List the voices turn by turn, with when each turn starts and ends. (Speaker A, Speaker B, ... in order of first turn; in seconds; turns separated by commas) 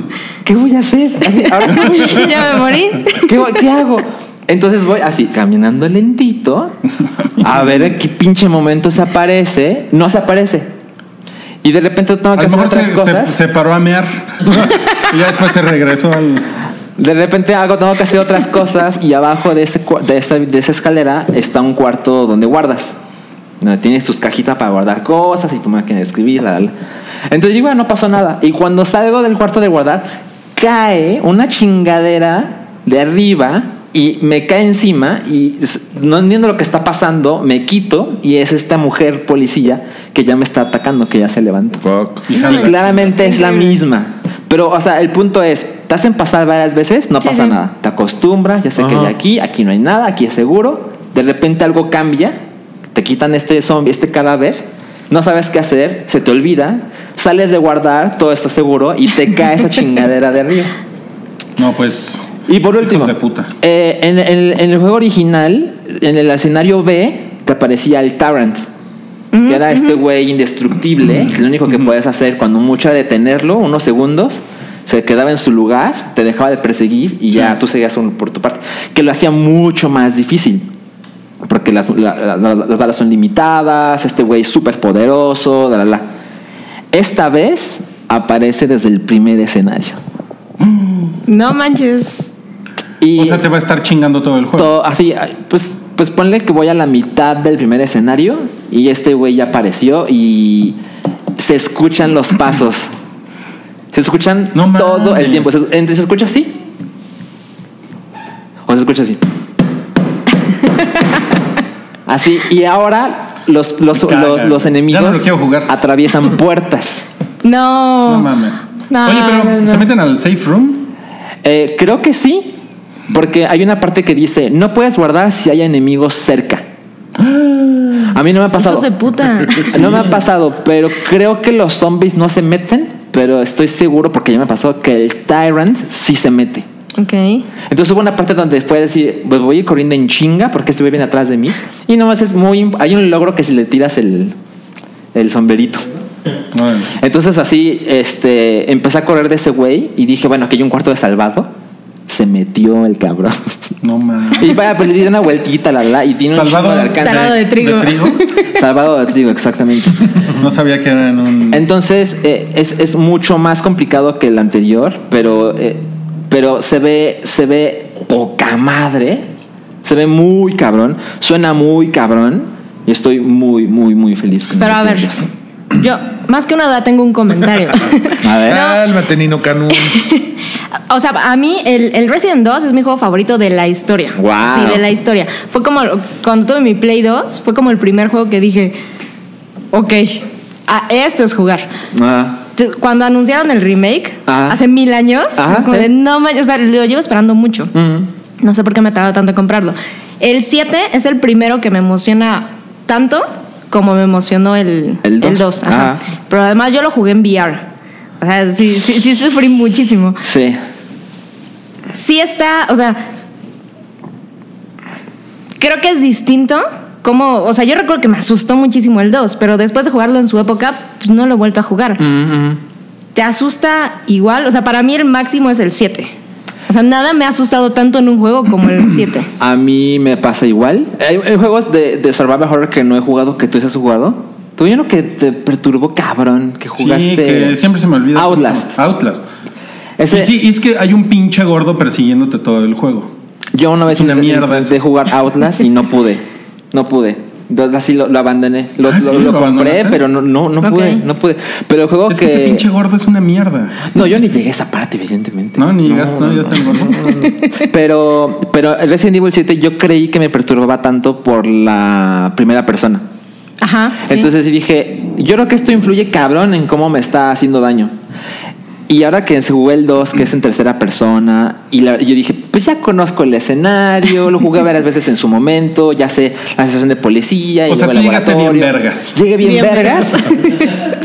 Speaker A: 0.4-6.8, Speaker B: 1.6-3.3, Speaker A: 7.4-10.7, Speaker A: 11.6-13.4, Speaker C: 12.3-16.5, Speaker A: 17.0-23.0, Speaker A: 23.6-26.7, Speaker A: 27.3-52.4, Speaker D: 41.8-42.3, Speaker C: 42.3-43.1, Speaker B: 42.3-43.7, Speaker B: 47.2-47.5, Speaker D: 48.8-49.1, Speaker A: 52.9-60.7, Speaker C: 61.6-62.3, Speaker A: 62.5-68.7, Speaker C: 62.8-63.5, Speaker B: 69.3-69.9, Speaker A: 69.4-80.7, Speaker A: 81.4-86.1, Speaker A: 86.9-90.0, Speaker C: 90.6-91.1, Speaker B: 91.3-92.1, Speaker A: 93.0-93.5, Speaker C: 93.2-94.7, Speaker A: 94.6-100.8, Speaker A: 101.4-102.9, Speaker A: 103.9-106.6, Speaker C: 104.5-105.5, Speaker A: 108.7-109.2, Speaker A: 112.1-117.0, Speaker C: 114.0-115.7, Speaker B: 117.4-118.3, Speaker C: 118.0-120.9, Speaker B: 118.9-119.8, Speaker A: 121.4-122.6, Speaker A: 123.1-126.7, Speaker C: 127.2-128.1, Speaker A: 128.0-128.9, Speaker B: 128.6-129.8, Speaker A: 129.6-136.7, Speaker B: 137.0-137.5, Speaker A: 137.7-144.3, Speaker A: 145.1-146.0, Speaker C: 146.5-146.9, Speaker A: 146.9-151.5, Speaker A: 152.1-153.5, Speaker C: 153.8-154.6, Speaker A: 154.4-157.4, Speaker C: 156.3-158.3, Speaker B: 156.9-158.4, Speaker A: 158.5-160.1, Speaker C: 160.3-161.7, Speaker A: 161.5-169.3, Speaker A: 169.8-175.2, Speaker B: 174.6-175.1, Speaker B: 175.7-178.8, Speaker A: 178.2-178.6, Speaker D: 178.4-180.0, Speaker B: 179.7-180.3, Speaker B: 180.9-188.8, Speaker A: 184.2-184.8, Speaker B: 189.7-191.7, Speaker A: 191.9-192.4, Speaker B: 192.6-197.7, Speaker A: 194.3-194.6, Speaker A: 195.4-195.9, Speaker A: 197.7-198.1, Speaker B: 198.4-207.7, Speaker A: 205.0-206.0, Speaker B: 208.2-210.2, Speaker A: 210.2-210.6, Speaker B: 211.9-213.1, Speaker B: 215.6-222.0, Speaker A: 222.0-222.6, Speaker B: 223.2-226.1, Speaker B: 226.7-229.3, Speaker A: 229.4-237.6, Speaker C: 236.8-239.2, Speaker A: 238.2-238.8, Speaker A: 240.0-240.3, Speaker C: 240.1-243.1, Speaker A: 243.5-252.7, Speaker C: 243.9-244.7, Speaker C: 248.9-250.0, Speaker B: 250.6-251.0, Speaker C: 252.1-253.9, Speaker A: 253.9-263.0, Speaker C: 255.6-257.1, Speaker B: 263.6-264.3, Speaker A: 264.1-267.9, Speaker A: 268.9-280.3, Speaker C: 277.7-279.1, Speaker B: 279.4-280.9